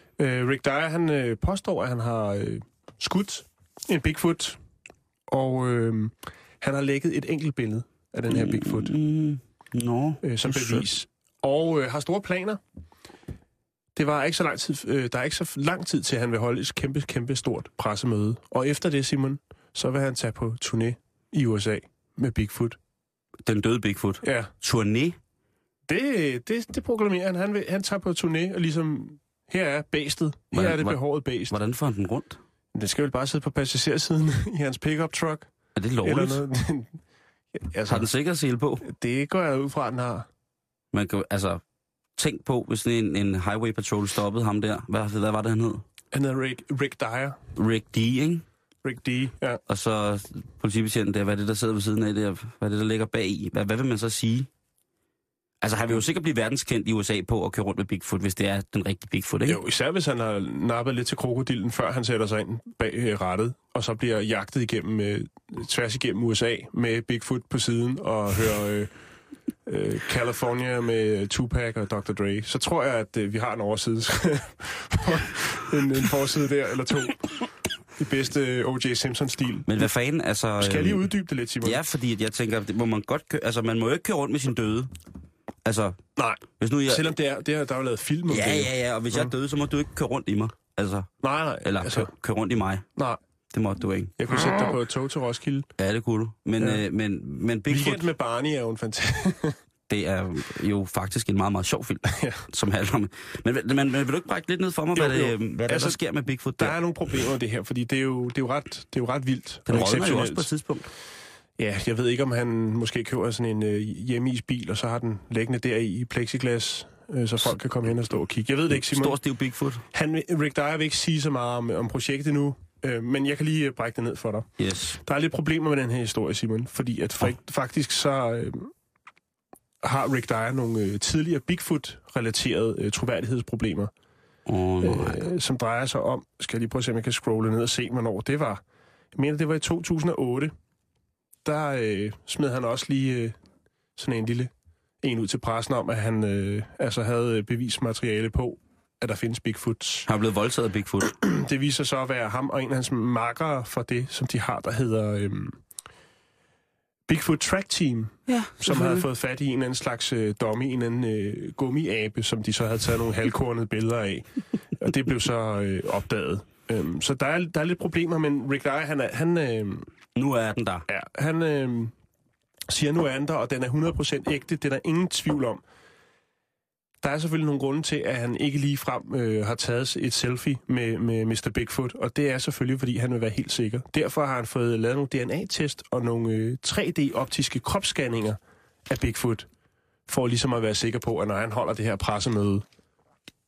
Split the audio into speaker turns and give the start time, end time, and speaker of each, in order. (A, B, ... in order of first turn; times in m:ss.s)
0:00.2-0:04.6 A
0:05.3-0:08.9 A
0:08.3-0:10.9 B
0:10.2-0:12.6 A
0:13.9-0:22.8 A
0:23.4-0:25.2 B
0:24.2-0:24.5 A
0:25.9-0:31.5 A
0:30.5-0:32.4 B
0:32.7-0:35.5 A
0:35.8-0:36.4 B
0:36.0-0:36.9 A
0:37.5-0:38.1 A
0:37.9-0:38.8 B
0:38.8-0:40.3 A
0:40.9-0:41.6 B
0:42.2-0:45.8 B
0:46.1-0:47.4 A
0:47.6-0:48.4 B
0:48.8-0:49.6 A
0:49.7-0:54.5 B
0:55.6-0:59.6 B
0:59.5-1:08.9 A
1:09.6-1:17.4 A
1:18.0-1:19.9 A
1:19.7-1:21.0 B
1:20.6-1:21.8 A
1:21.6-1:24.9 B
1:25.6-1:26.0 B
1:26.2-1:29.3 A
1:26.6-1:27.1 B
1:28.3-1:31.1 B
1:31.2-1:32.1 A
1:31.6-1:32.8 B
1:33.5-1:34.1 B
1:34.2-1:35.7 A
1:35.8-1:38.1 B
1:37.7-1:39.6 A
1:39.9-1:46.8 B
1:42.1-1:42.4 A
1:44.9-1:46.0 A
1:46.6-1:50.5 A
1:49.7-1:50.9 B
1:51.6-1:59.2 A
1:58.7-1:59.8 B
1:59.9-2:08.7 A
2:04.6-2:05.0 B
2:09.8-2:13.9 A
2:14.4-2:15.2 B
2:14.8-2:18.6 A
2:19.1-2:20.5 A
2:21.4-2:23.4 A
2:24.0-2:24.5 A
2:25.0-2:30.1 A
2:30.0-2:31.1 B
2:31.1-2:35.6 A
2:37.1-2:49.9 A
2:38.3-2:39.0 B
2:50.2-2:50.8 B
2:50.9-2:51.9 A
2:52.7-2:55.6 A
2:57.0-3:09.5 A
3:10.1-3:12.6 A